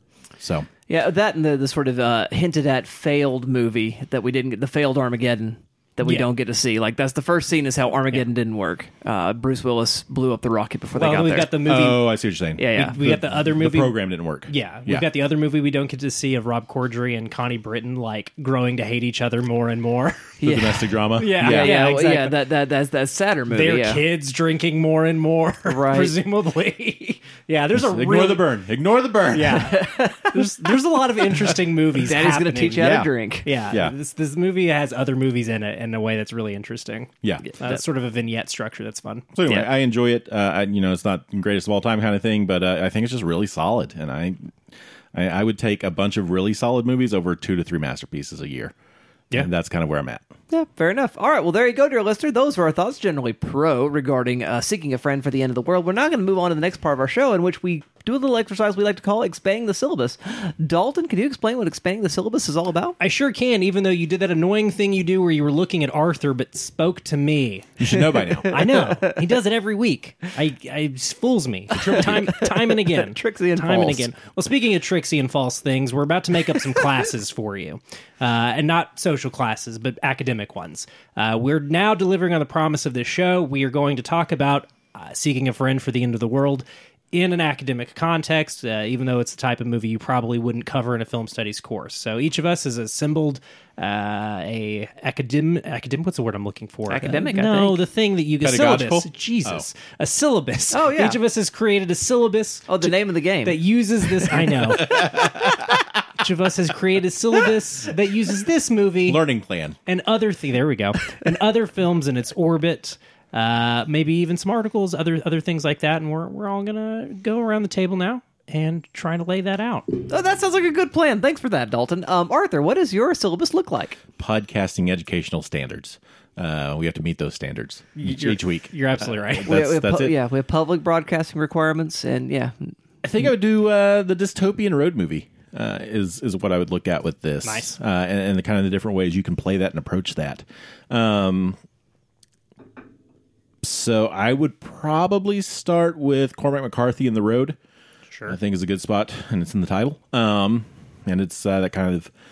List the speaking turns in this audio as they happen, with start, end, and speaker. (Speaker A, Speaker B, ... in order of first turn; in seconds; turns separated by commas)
Speaker A: 0.4-0.7, Speaker B: 0.9-11.6, Speaker C: 10.9-12.0, Speaker A: 11.6-15.1, Speaker B: 12.6-13.0, Speaker C: 12.7-13.9, Speaker C: 14.5-20.4, Speaker B: 20.4-24.0, Speaker A: 20.4-21.8, Speaker C: 21.1-22.4, Speaker C: 23.5-28.5, Speaker B: 25.6-26.1, Speaker A: 27.7-29.7, Speaker C: 29.3-39.6, Speaker B: 29.5-30.7, Speaker B: 31.9-33.5, Speaker A: 32.8-33.1, Speaker A: 39.4-44.5, Speaker A: 45.1-48.7, Speaker A: 49.3-50.3, Speaker B: 50.5-63.0, Speaker C: 63.0-105.4, Speaker A: 67.8-68.6, Speaker B: 68.5-69.1, Speaker B: 71.8-74.1, Speaker B: 96.9-97.8, Speaker A: 98.4-99.7, Speaker B: 100.7-101.2, Speaker B: 102.7-103.6, Speaker A: 104.8-105.6, Speaker C: 106.2-109.2, Speaker A: 109.0-109.8, Speaker C: 109.9-120.0, Speaker B: 120.1-124.0, Speaker A: 124.2-130.1, Speaker C: 128.0-129.5, Speaker B: 129.4-132.7, Speaker A: 133.0-141.6, Speaker C: 137.4-137.8, Speaker A: 143.6-147.6, Speaker C: 148.1-148.4, Speaker A: 148.3-152.1